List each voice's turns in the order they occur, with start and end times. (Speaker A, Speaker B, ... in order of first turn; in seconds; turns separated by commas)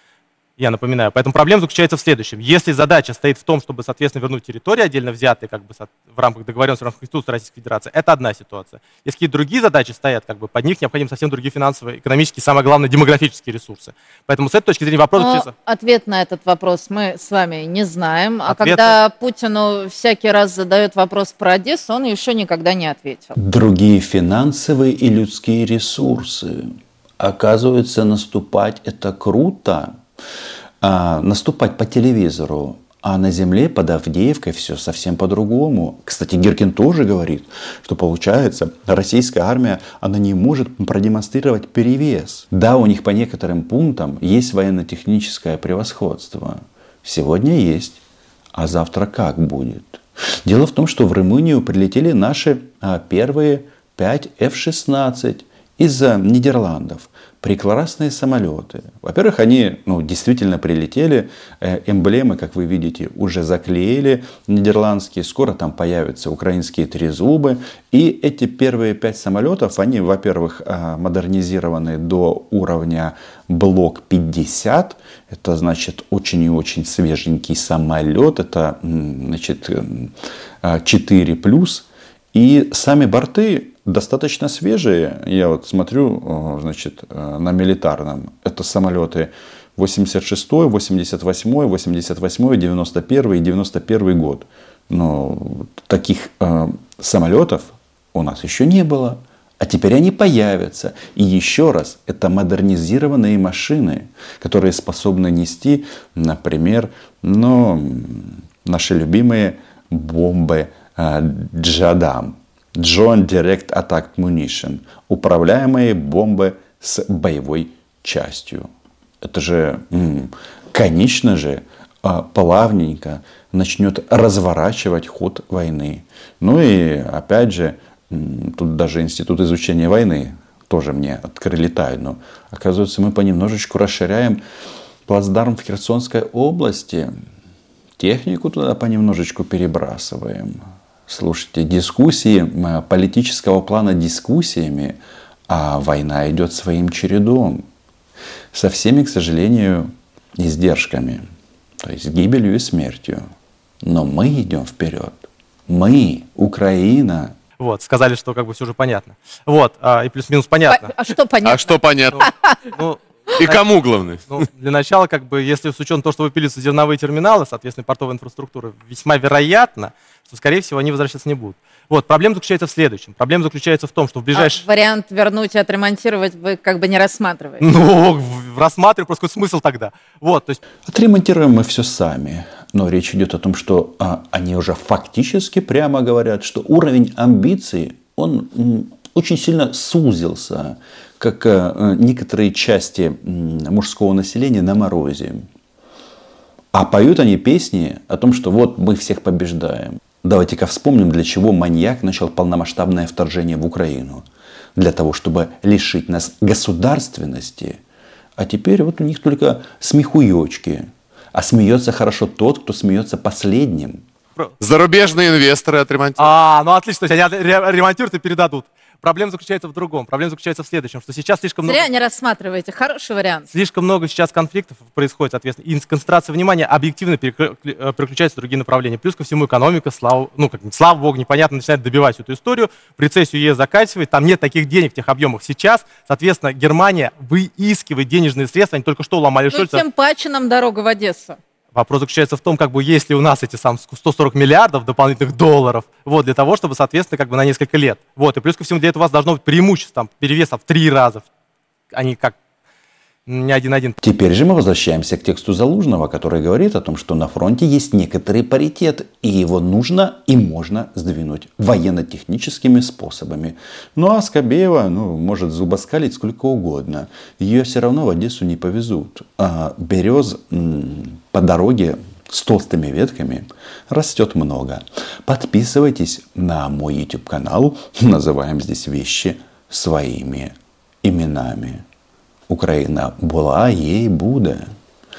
Speaker A: 0.6-15.5, Speaker B: 15.2-23.4, Speaker A: 18.4-19.0, Speaker C: 23.4-26.7, Speaker C: 27.2-29.9, Speaker C: 30.8-48.0, Speaker C: 48.5-118.7, Speaker C: 119.2-134.4, Speaker C: 135.1-137.1, Speaker C: 138.0-145.0, Speaker C: 145.5-147.6, Speaker C: 148.5-151.2, Speaker C: 151.8-153.2, Speaker C: 153.8-157.3, Speaker A: 157.6-161.0, Speaker B: 160.7-162.6, Speaker D: 161.4-162.3, Speaker A: 162.1-163.7, Speaker D: 163.4-164.3, Speaker A: 164.3-174.6, Speaker B: 174.3-177.7, Speaker A: 177.6-180.6, Speaker C: 180.9-195.5, Speaker C: 196.7-204.2, Speaker C: 204.8-207.8, Speaker C: 208.4-214.0, Speaker D: 214.6-216.3, Speaker A: 216.2-221.9, Speaker B: 221.7-223.5, Speaker A: 223.5-239.8, Speaker B: 239.5-241.4, Speaker A: 241.8-251.3, Speaker A: 251.9-252.4, Speaker A: 253.3-254.0, Speaker C: 254.0-281.8, Speaker C: 282.5-284.6